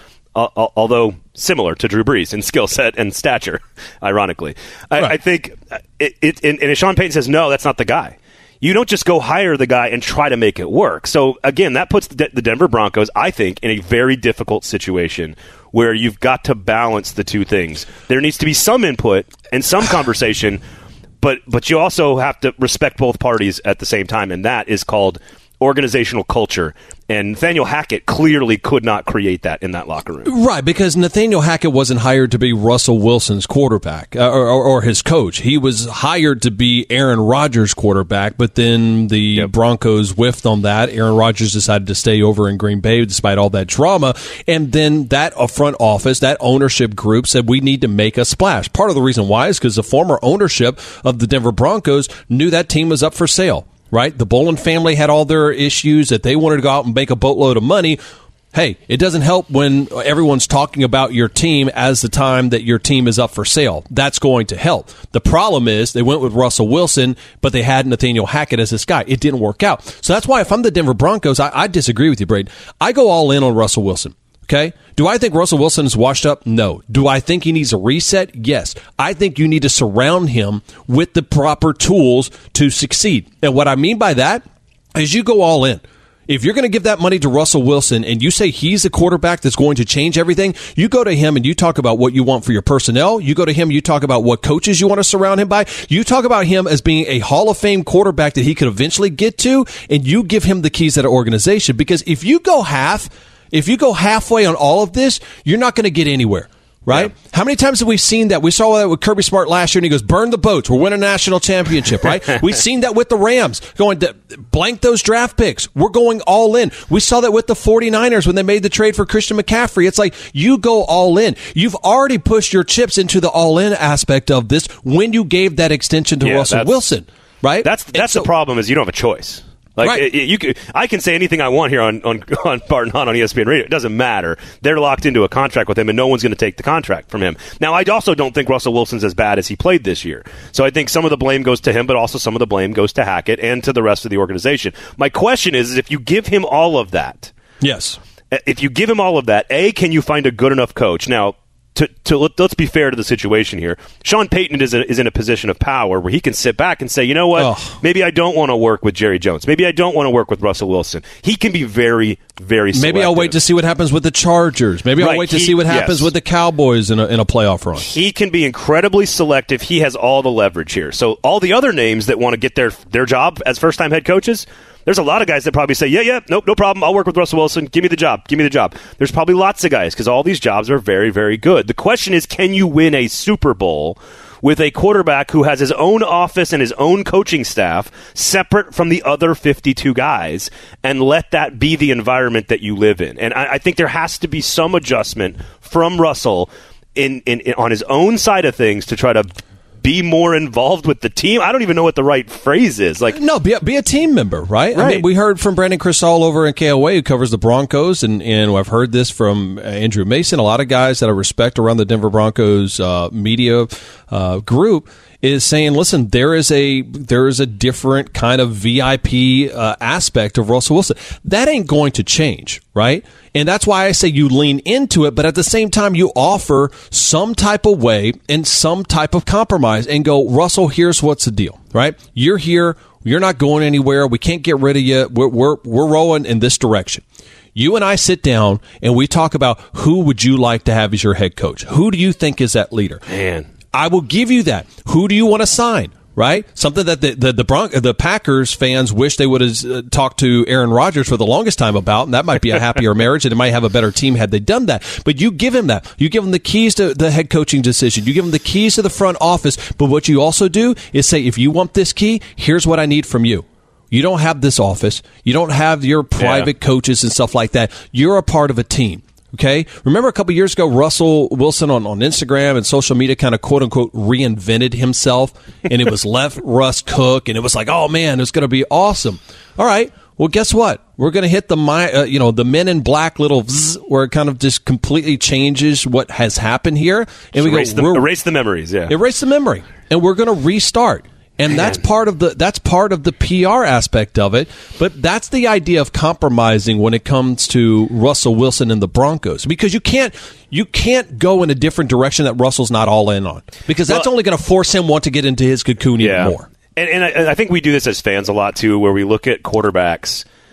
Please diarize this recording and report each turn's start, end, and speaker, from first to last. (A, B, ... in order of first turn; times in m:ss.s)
0:00.4-0:20.6 A
0:21.2-0:30.3 A
0:30.2-0:58.0 B
0:58.5-2:08.3 B
2:06.2-2:06.8 A
2:07.6-2:27.3 A
2:09.8-2:10.1 B
2:27.6-2:28.0 B
2:28.3-2:43.4 A
2:37.4-2:37.8 B
2:42.7-2:47.9 B
2:45.0-2:46.1 A
2:47.8-3:23.2 A
3:23.1-3:57.0 B
3:24.7-3:25.0 A
3:57.6-4:03.0 B
4:03.1-4:03.5 A
4:03.7-4:48.1 B
4:26.2-4:26.5 A
4:47.4-4:49.0 A
4:48.9-5:06.5 B
4:51.5-4:51.8 A
5:06.0-5:10.2 A